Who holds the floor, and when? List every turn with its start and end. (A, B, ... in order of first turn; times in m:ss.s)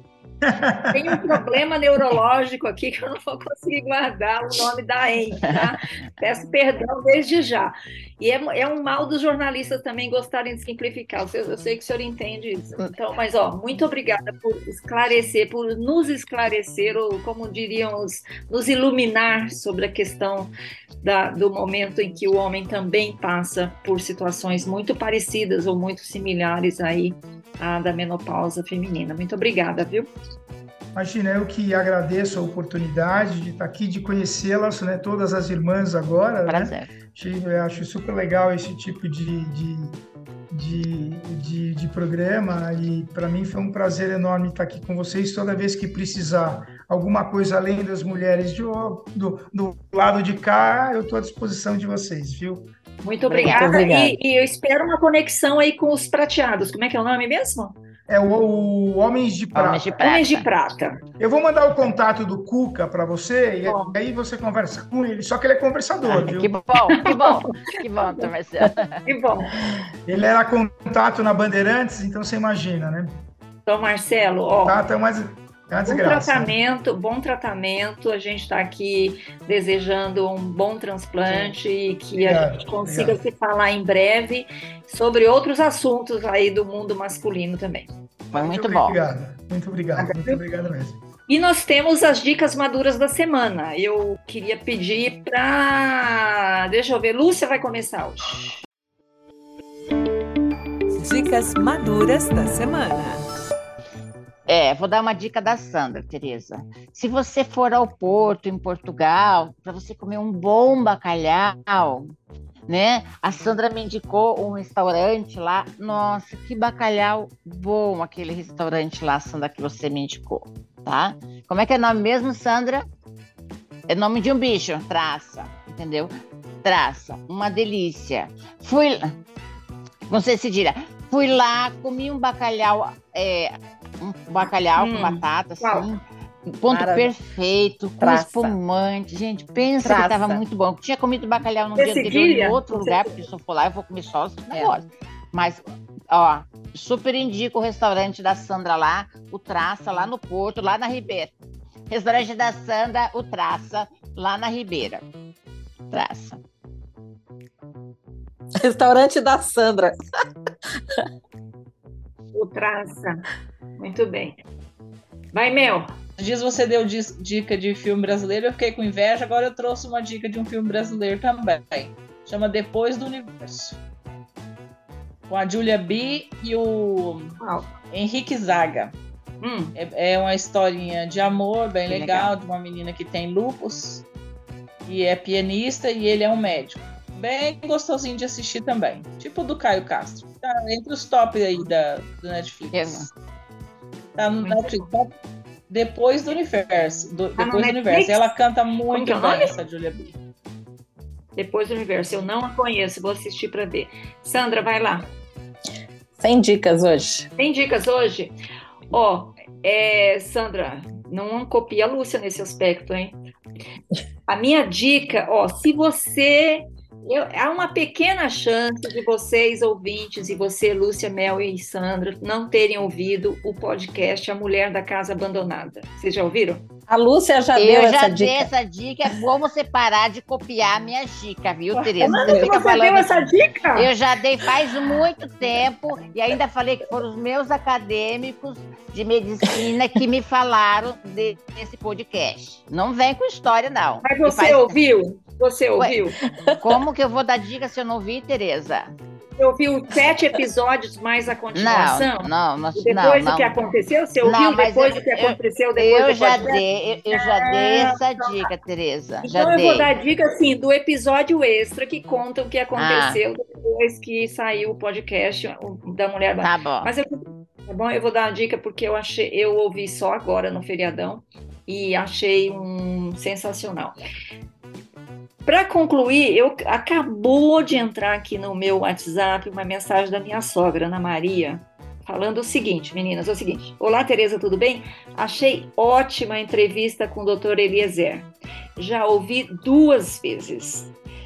0:00.4-0:01.3 A
0:00.9-0:30.1 B
0:30.9-0:40.0 A
0:36.4-0:36.9 C
0:40.5-0:52.7 A
0:53.0-0:57.8 B
0:53.3-0:53.8 C
0:53.4-0:54.2 D
0:58.1-0:59.9 A
0:59.5-1:00.5 C
1:00.0-1:01.0 B
1:01.2-1:06.5 A
1:03.6-1:03.9 B
1:06.0-1:09.0 C
1:06.9-1:07.7 B
1:09.0-1:09.5 B
1:10.0-1:13.2 A
1:13.6-1:14.8 B
1:14.6-1:16.5 A
1:15.8-1:27.9 B
1:21.2-1:21.5 C
1:22.2-1:23.2 A
1:28.3-1:31.0 A
1:28.3-1:29.0 C
1:30.0-1:30.4 B
1:31.3-1:38.6 B
1:41.0-1:43.2 E
1:44.5-1:52.1 C
1:52.7-2:02.8 C
2:03.9-2:09.2 C
2:10.1-2:31.3 C
2:14.8-2:15.9 B
2:16.7-2:17.2 D
2:18.0-2:18.6 D
2:19.8-2:20.4 D
2:21.8-2:23.1 B
2:24.5-2:24.8 D
2:31.9-2:35.0 C
2:35.9-2:36.4 C
2:38.5-2:40.0 D
2:42.3-2:43.2 B
2:43.8-2:44.4 B
2:45.3-2:45.9 B
2:46.2-2:53.8 F
2:55.3-2:57.4 F
2:57.4-2:57.6 B
2:57.9-2:59.0 F
2:59.4-2:59.7 B
2:59.8-3:04.0 F
3:01.9-3:02.3 C
3:04.8-3:13.1 F
3:12.7-3:13.1 C
3:14.2-3:15.1 F
3:15.7-3:20.2 F
3:17.4-3:18.3 B
3:18.9-3:19.6 B
3:21.4-3:25.1 B
3:26.2-3:27.3 D
3:27.4-3:28.4 B
3:28.9-3:33.2 B
3:34.3-3:46.6 B
3:46.9-3:48.5 D
3:47.6-4:04.8 C
3:52.0-3:53.9 B
4:04.0-4:06.2 B
4:06.4-4:06.8 D
4:06.6-4:08.9 C
4:09.4-4:18.5 B
4:11.5-4:13.5 C
4:14.2-4:19.9 C
4:19.2-4:33.9 B
4:22.8-4:23.2 C
4:26.4-4:26.9 C
4:35.4-4:50.9 B